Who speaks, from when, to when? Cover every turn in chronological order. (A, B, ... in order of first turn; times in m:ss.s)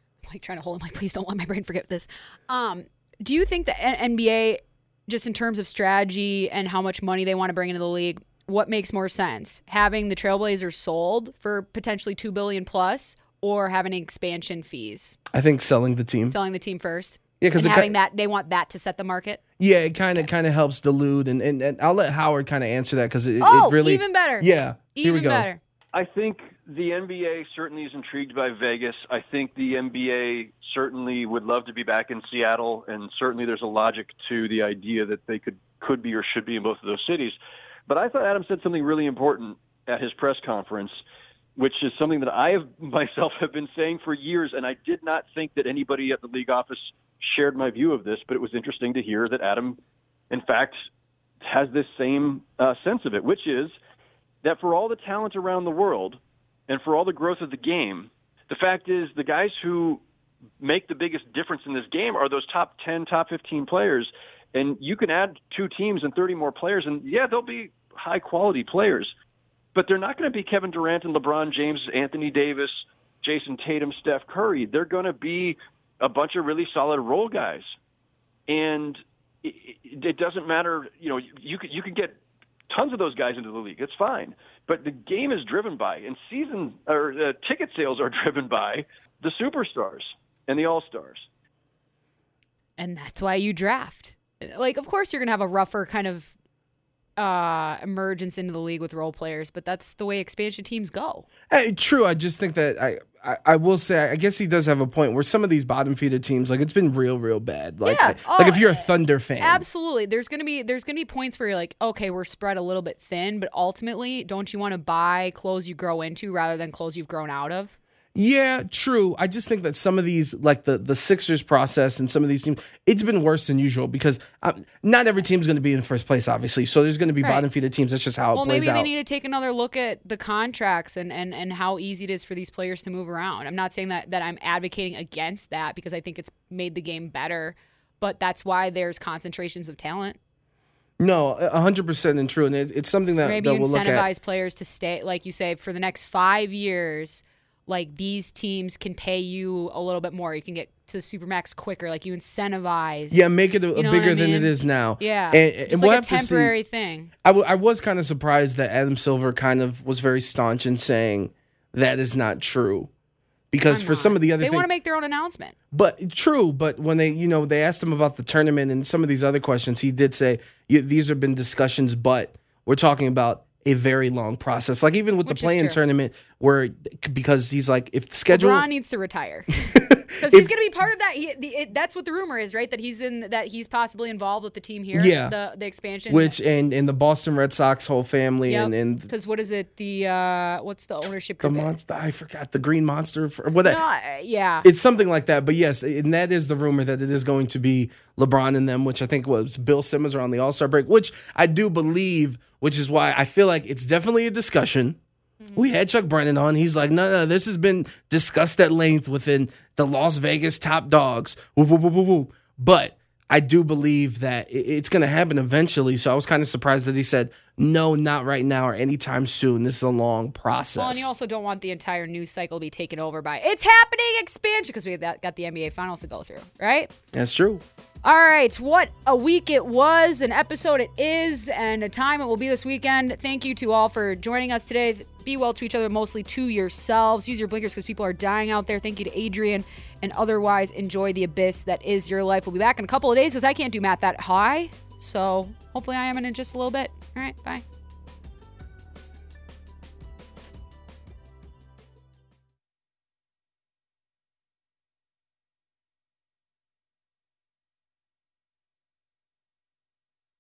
0:00.3-0:15.2 A
0:15.3-0:16.4 B
0:16.3-0:19.4 A
0:17.4-0:17.9 B
0:19.6-0:25.5 B
0:23.4-0:25.6 A
0:25.9-0:41.0 C
0:41.6-0:49.8 C
0:50.3-0:50.8 C
0:51.4-0:53.8 C
0:54.4-1:00.0 C
1:00.6-1:09.1 C
1:09.7-1:17.7 C
1:18.5-1:31.3 C
1:32.8-1:36.3 A
1:37.2-1:41.3 A
1:41.5-1:49.6 B
1:47.8-1:57.8 A
1:58.1-2:08.9 B
2:07.2-2:07.5 A
2:08.3-2:20.2 A
2:21.0-2:24.1 B
2:23.2-2:37.1 A
2:33.1-2:36.5 B
2:37.2-2:42.9 B
2:43.5-2:44.7 B
2:43.7-2:45.5 A
2:45.7-2:58.6 B
2:55.2-2:55.8 A
2:58.3-3:06.4 A
2:59.7-3:00.5 B
3:04.9-3:05.3 B
3:06.1-3:09.1 B
3:08.4-3:11.7 A
3:11.4-3:13.8 B
3:13.6-3:14.7 A
3:14.6-3:25.0 B
3:25.5-3:41.1 B
3:40.8-3:46.9 A
3:47.1-3:47.6 B
3:48.0-4:07.6 A